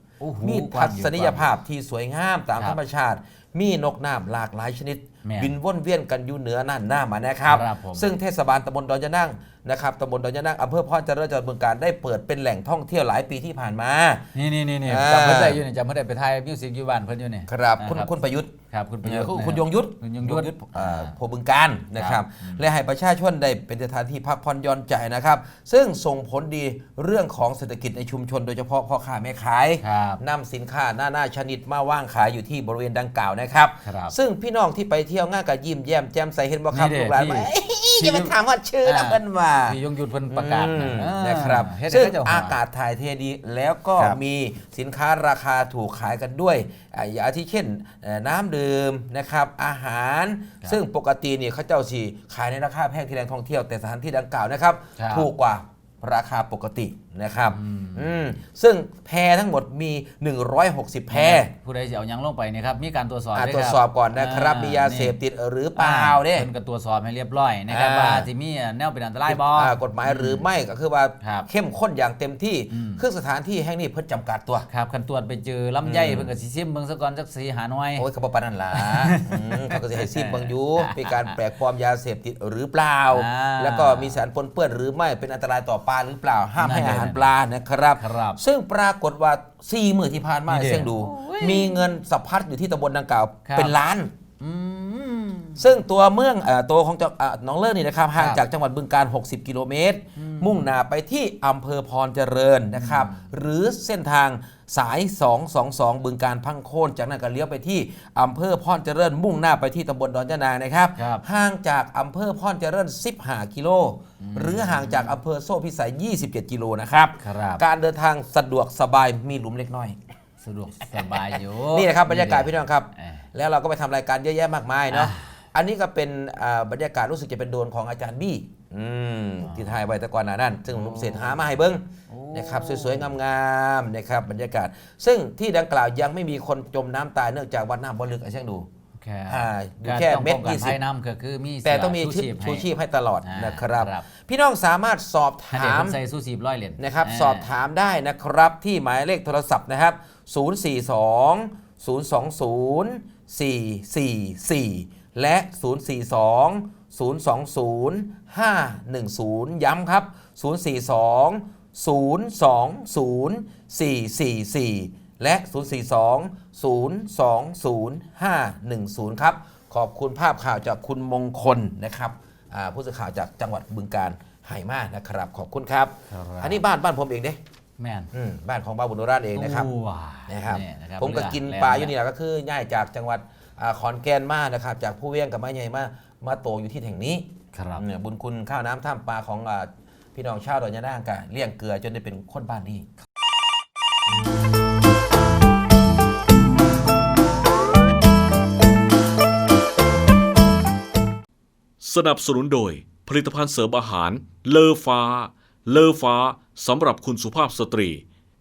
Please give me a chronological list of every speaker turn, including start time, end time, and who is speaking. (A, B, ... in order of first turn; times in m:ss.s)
0:00.2-0:01.5 A
0:00.4-0:14.2 B
0:05.2-0:05.5 A
0:07.5-0:08.1 A
0:14.3-0:18.1 A
0:14.8-0:15.6 B
0:17.5-0:18.5 B
0:18.7-0:21.1 A
0:19.0-0:39.8 B
0:22.0-0:22.6 A
0:29.8-0:30.2 A
0:33.8-0:34.1 A
0:36.7-0:42.6 A
0:40.3-1:01.5 B
0:55.0-0:55.3 A
0:57.5-0:58.2 A
1:01.1-1:05.2 A
1:03.3-1:06.5 B
1:05.8-1:10.4 A
1:07.7-1:08.3 B
1:09.2-1:14.7 B
1:11.2-1:11.5 A
1:12.7-1:13.0 A
1:14.7-1:18.1 A
1:15.8-1:16.3 B
1:18.0-1:34.1 B
1:18.7-1:21.4 A
1:23.1-1:24.2 A
1:26.6-1:27.3 A
1:28.0-1:28.4 A
1:30.5-1:31.9 A
1:33.4-1:33.7 A
1:34.4-1:35.7 A
1:35.6-2:00.0 B
1:40.2-1:40.7 A
1:42.8-1:43.2 A
1:51.0-1:51.2 A
1:54.2-1:55.2 A
1:57.2-1:57.6 A
2:00.4-2:03.2 A
2:01.7-2:18.7 B
2:04.9-2:05.3 A
2:09.4-2:09.7 A
2:10.7-2:11.4 A
2:12.1-2:13.1 A
2:19.0-2:22.7 A
2:19.3-2:20.8 B
2:21.6-2:26.0 B
2:23.2-2:24.1 A
2:25.5-2:27.5 A
2:26.8-2:57.4 B
2:56.1-2:56.6 A
2:57.8-2:58.1 A
2:58.1-2:59.7 B
2:59.3-3:01.9 A
3:00.3-3:07.2 B
3:07.5-3:07.8 A
3:07.8-3:12.9 B
3:21.8-3:28.0 C